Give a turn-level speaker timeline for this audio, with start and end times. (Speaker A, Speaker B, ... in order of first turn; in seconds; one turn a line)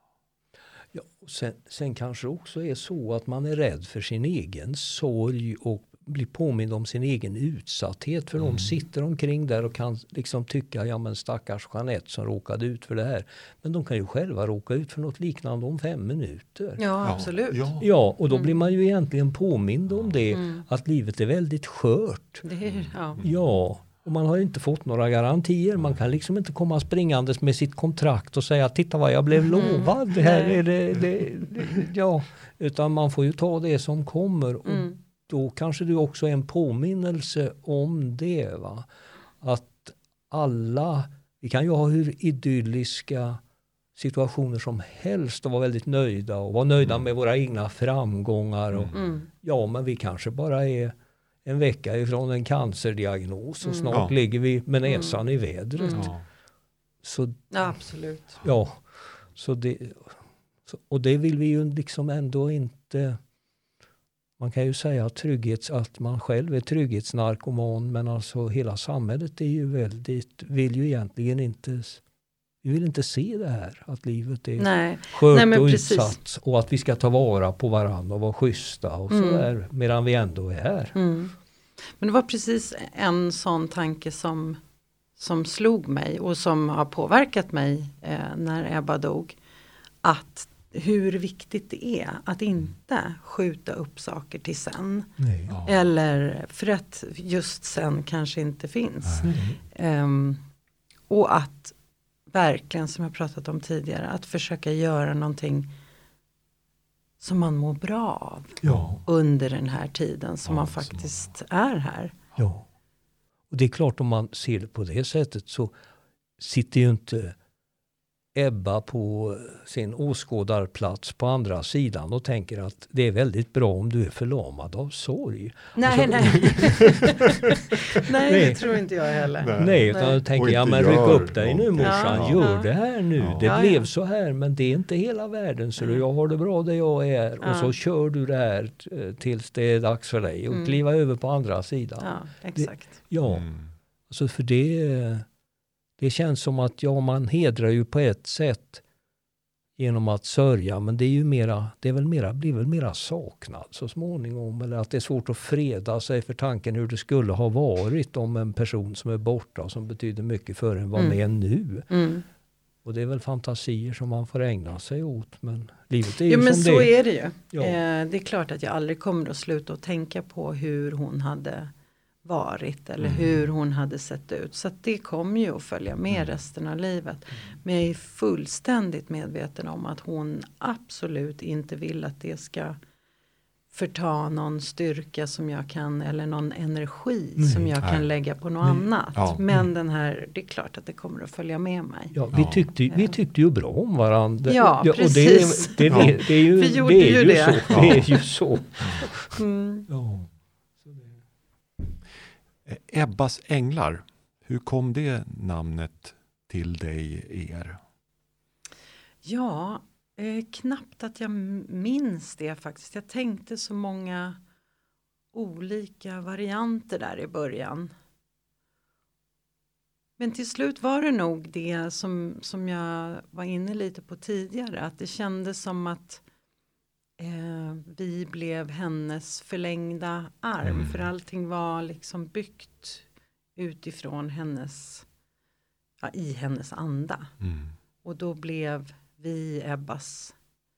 Speaker A: 0.9-16.8
Speaker B: 8.4-8.7
Speaker C: 16.8-17.7
Speaker B: 17.0-17.9
Speaker A: 17.8-22.4
Speaker C: 18.3-18.6
Speaker C: 20.3-20.6
Speaker C: 22.4-23.2
Speaker B: 22.6-23.4
Speaker A: 23.2-38.9
Speaker C: 29.5-30.6
Speaker C: 34.7-35.0
Speaker A: 39.4-43.4
Speaker A: 44.0-50.9
Speaker C: 48.9-49.3
Speaker A: 51.5-56.1
Speaker C: 53.6-54.0
Speaker C: 54.9-55.2
Speaker C: 55.8-56.1
Speaker B: 55.9-56.2
Speaker A: 57.0-57.8
Speaker C: 57.5-58.4
Speaker A: 58.4-63.2
Speaker A: 64.4-72.0
Speaker A: 72.6-81.0
Speaker C: 74.6-76.2
Speaker C: 79.1-79.5
Speaker C: 81.0-81.3
Speaker C: 81.9-84.6
Speaker C: 85.2-89.4
Speaker C: 90.0-100.4
Speaker A: 95.2-95.5
Speaker B: 95.5-95.8
Speaker B: 99.1-99.3
Speaker A: 99.2-99.6
Speaker C: 101.1-101.7
Speaker C: 102.3-105.7
Speaker C: 107.2-112.2
Speaker A: 108.6-109.0
Speaker B: 108.6-109.0
Speaker B: 110.5-111.3
Speaker A: 112.4-112.7
Speaker A: 113.5-115.7
Speaker A: 116.4-117.4
Speaker A: 118.3-128.8
Speaker C: 125.8-130.2
Speaker B: 129.4-132.5
Speaker A: 129.6-143.5
Speaker C: 131.8-132.7
Speaker B: 133.2-133.5
Speaker C: 133.4-133.9
Speaker C: 137.4-137.7
Speaker C: 140.5-140.8
Speaker C: 142.0-143.0
Speaker B: 143.2-143.7
Speaker A: 144.1-145.3
Speaker A: 146.0-148.8
Speaker A: 149.8-161.9
Speaker C: 161.9-162.2
Speaker A: 162.8-166.9
Speaker C: 166.2-171.7
Speaker C: 172.2-182.8
Speaker B: 173.0-173.4
Speaker C: 183.7-192.2
Speaker A: 187.4-187.7
Speaker B: 187.8-188.1
Speaker B: 189.2-189.4
Speaker A: 192.1-199.3
Speaker B: 192.3-192.7
Speaker C: 192.9-193.2
Speaker C: 194.5-198.2
Speaker B: 195.9-196.2
Speaker B: 197.7-198.1
Speaker C: 199.3-199.9
Speaker A: 199.9-200.3
Speaker A: 200.8-201.1
Speaker B: 202.7-207.8
Speaker C: 209.2-214.4
Speaker C: 215.3-217.9
Speaker C: 220.2-226.2
Speaker C: 227.2-233.1
Speaker B: 230.6-231.1
Speaker C: 233.6-235.1
Speaker C: 236.0-237.3
Speaker B: 237.4-237.7
Speaker C: 238.0-240.3